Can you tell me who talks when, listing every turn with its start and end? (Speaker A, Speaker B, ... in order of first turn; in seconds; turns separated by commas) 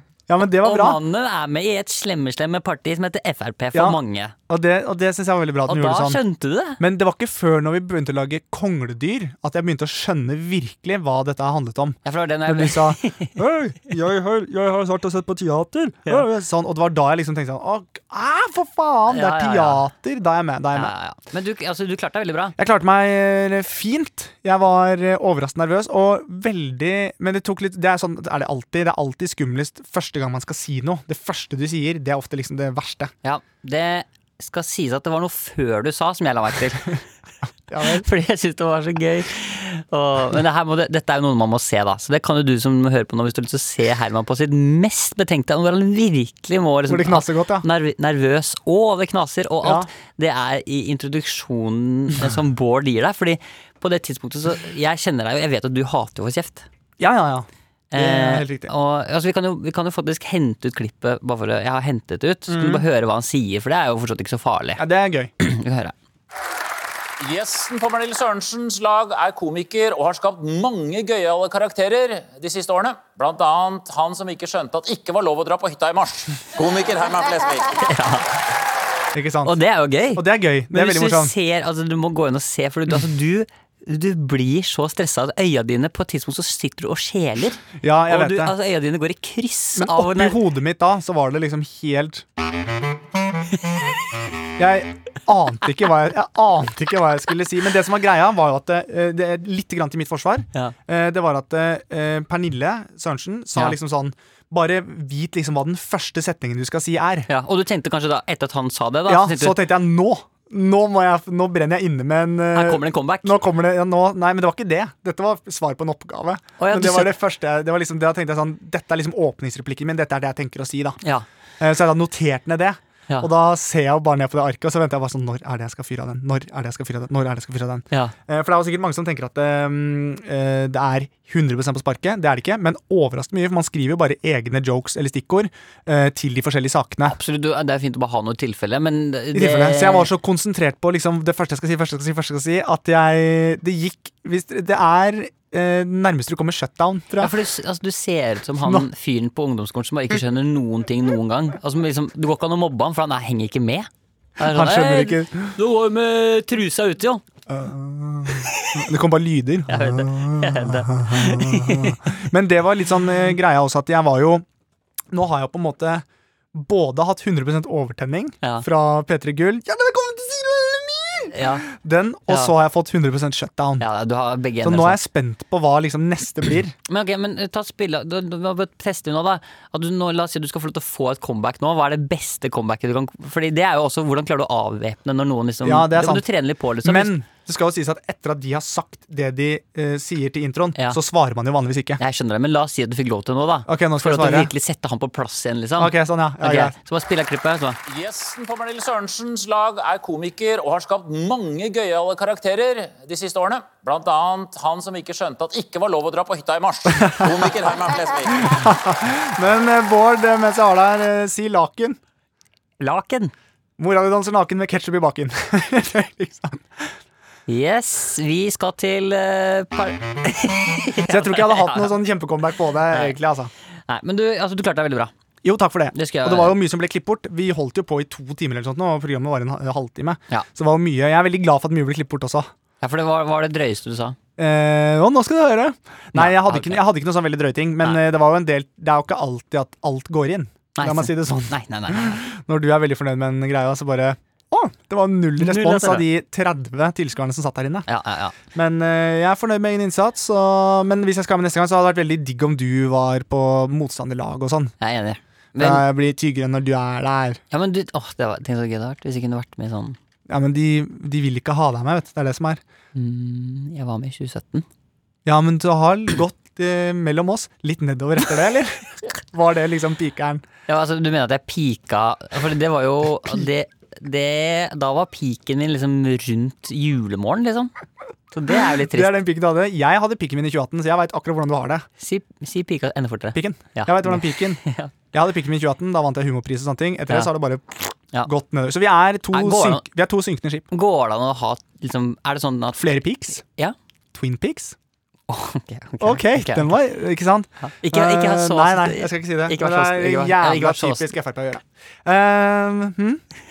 Speaker A: 0.3-1.0, Speaker B: 0.4-4.3, Speaker A: 3.7-6.2, Speaker B: 5.7-6.8, Speaker A: 6.8-20.9, Speaker B: 12.1-13.4, Speaker B: 19.1-19.9, Speaker B: 20.7-22.6, Speaker A: 22.6-33.1, Speaker B: 33.2-37.0, Speaker A: 37.7-38.0, Speaker B: 37.8-56.7, Speaker A: 46.9-47.7, Speaker A: 49.6-49.9, Speaker A: 57.0-58.7, Speaker B: 57.9-64.8, Speaker A: 62.5-62.9, Speaker A: 64.8-65.3, Speaker B: 65.4-66.0, Speaker C: 67.2-77.8, Speaker B: 77.8-78.4, Speaker A: 79.1-79.6, Speaker B: 79.5-90.4, Speaker A: 80.1-81.3, Speaker A: 87.8-88.5, Speaker A: 89.8-92.2, Speaker A: 94.6-107.3, Speaker B: 107.3-109.7, Speaker A: 109.1-121.0, Speaker B: 112.5-113.3, Speaker B: 116.6-117.2, Speaker A: 121.6-137.2, Speaker B: 137.1-140.1, Speaker A: 139.3-147.3, Speaker B: 147.2-157.2, Speaker A: 148.6-148.9, Speaker A: 154.4-155.6, Speaker A: 157.5-164.4, Speaker B: 158.3-158.8, Speaker B: 159.7-162.0, Speaker A: 165.1-173.8, Speaker B: 171.3-171.7, Speaker B: 173.8-175.0, Speaker A: 174.6-176.8, Speaker B: 176.9-187.1, Speaker A: 185.6-186.2, Speaker A: 186.8-192.0, Speaker B: 192.0-197.8, Speaker A: 193.7-194.5, Speaker A: 195.8-196.8, Speaker C: 197.9-208.7, Speaker A: 208.3-212.0, Speaker B: 212.8-213.3, Speaker A: 213.8-216.9, Speaker B: 217.5-222.0, Speaker A: 221.0-223.5, Speaker B: 222.9-223.2, Speaker B: 223.9-225.1, Speaker A: 225.4-232.5, Speaker B: 225.9-226.6, Speaker B: 232.8-234.2, Speaker A: 234.4-247.9, Speaker B: 236.2-236.8, Speaker B: 240.8-242.2, Speaker B: 245.4-246.1, Speaker B: 247.9-248.4, Speaker A: 248.5-254.7, Speaker B: 254.8-255.9, Speaker A: 255.6-257.4, Speaker B: 257.5-260.0, Speaker A: 260.3-262.6, Speaker B: 262.9-264.7, Speaker A: 265.2-270.4, Speaker B: 270.7-277.7, Speaker B: 278.3-279.2, Speaker A: 278.7-281.9, Speaker B: 282.0-284.9, Speaker A: 283.4-290.7, Speaker B: 289.3-289.9, Speaker B: 290.7-293.0, Speaker A: 292.8-293.4, Speaker A: 294.1-294.8, Speaker B: 295.3-296.8, Speaker A: 296.0-303.2, Speaker B: 297.6-301.1